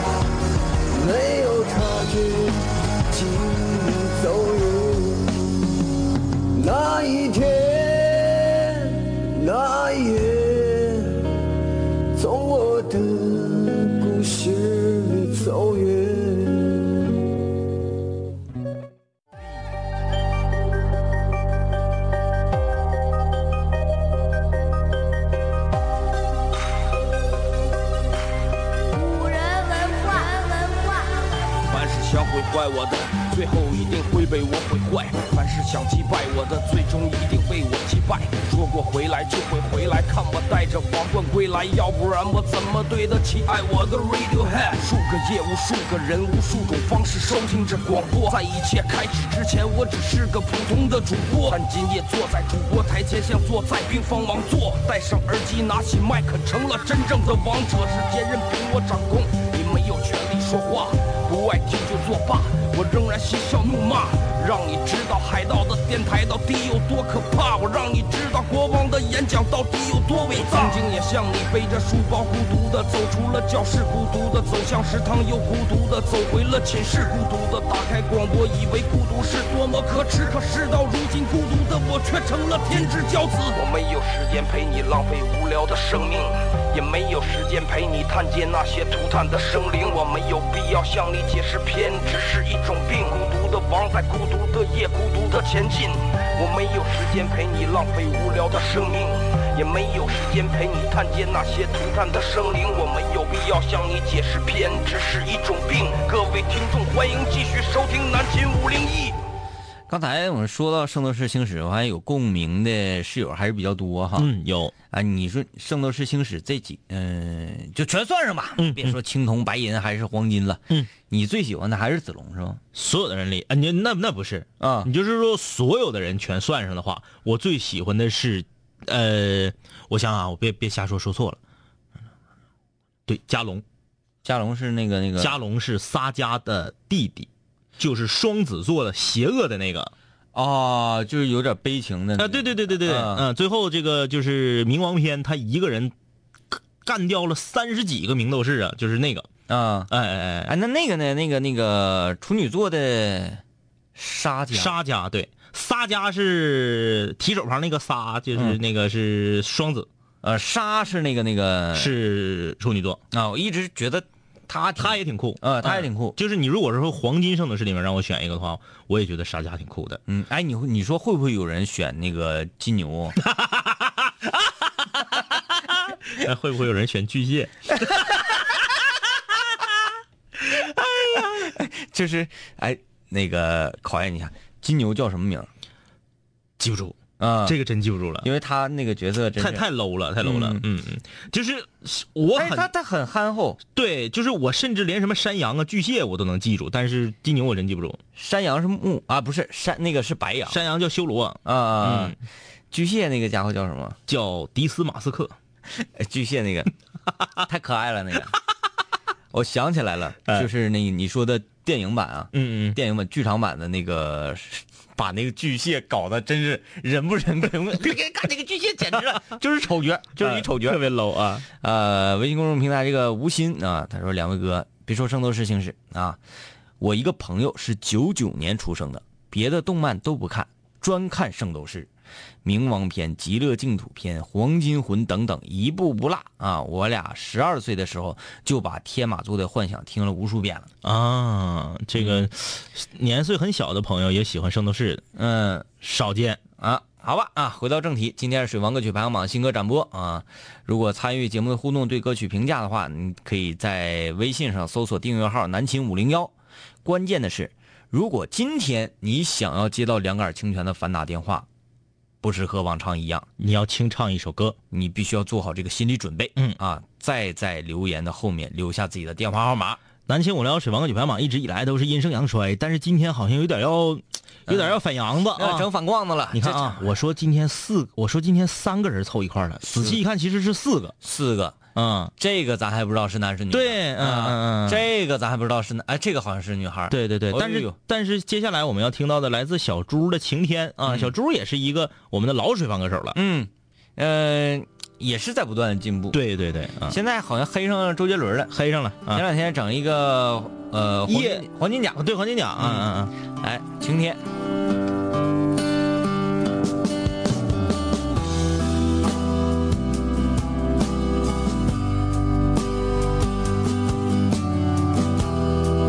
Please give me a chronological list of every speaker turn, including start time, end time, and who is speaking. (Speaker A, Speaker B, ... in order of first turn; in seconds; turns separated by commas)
Speaker A: 0.9-5.6, Speaker A: 6.5-11.4, Speaker A: 12.2-17.1, Speaker B: 28.9-31.3, Speaker C: 31.7-109.2, Speaker D: 109.9-114.3, Speaker E: 114.2-114.7, Speaker D: 114.9-122.6, Speaker E: 118.6-119.0, Speaker E: 122.7-131.4, Speaker D: 124.6-124.9, Speaker E: 133.1-133.6, Speaker D: 134.2-135.4, Speaker E: 135.2-139.9, Speaker D: 140.3-143.3, Speaker E: 142.2-145.9, Speaker E: 146.5-149.3, Speaker D: 149.5-149.9, Speaker E: 149.9-150.5, Speaker D: 150.5-153.4, Speaker D: 153.9-154.8, Speaker E: 154.5-159.9, Speaker D: 158.3-158.6, Speaker D: 160.2-161.9, Speaker E: 161.8-163.0, Speaker D: 163.1-166.2, Speaker E: 164.8-170.0, Speaker D: 170.1-173.2, Speaker E: 173.3-173.9, Speaker E: 175.7-178.2, Speaker D: 180.8-185.5, Speaker E: 186.6-188.3, Speaker D: 187.2-187.6, Speaker D: 188.2-189.7, Speaker E: 189.4-192.7, Speaker D: 190.2-190.6, Speaker D: 192.3-193.6, Speaker E: 193.8-198.0, Speaker D: 198.2-200.6, Speaker E: 200.5-202.2, Speaker D: 201.4-202.2, Speaker D: 202.7-204.0, Speaker E: 204.1-205.3, Speaker D: 205.7-206.7, Speaker D: 207.4-208.4, Speaker D: 209.3-220.8, Speaker E: 212.3-212.8, Speaker E: 217.9-219.3, Speaker E: 220.2-221.5, Speaker D: 221.6-226.2, Speaker D: 226.8-231.9, Speaker D: 232.4-240.7, Speaker E: 240.8-245.0, Speaker D: 242.0-242.3, Speaker D: 245.2-245.7, Speaker E: 245.8-246.4, Speaker D: 246.6-256.3, Speaker D: 256.9-261.5, Speaker D: 262.2-263.3, Speaker E: 263.4-264.6, Speaker D: 264.7-269.8, Speaker E: 270.1-275.7, Speaker D: 274.5-274.8, Speaker D: 275.3-276.9, Speaker E: 276.3-281.0, Speaker D: 279.6-280.0, Speaker D: 281.0-281.6, Speaker E: 281.8-282.1, Speaker D: 282.2-287.8, Speaker E: 283.5-284.9, Speaker E: 286.9-293.2, Speaker D: 290.9-291.1, Speaker D: 293.1-296.2, Speaker E: 296.1-297.0, Speaker D: 296.9-298.6, Speaker E: 298.5-299.2, Speaker D: 299.1-302.0, Speaker E: 301.1-303.1, Speaker D: 302.6-304.2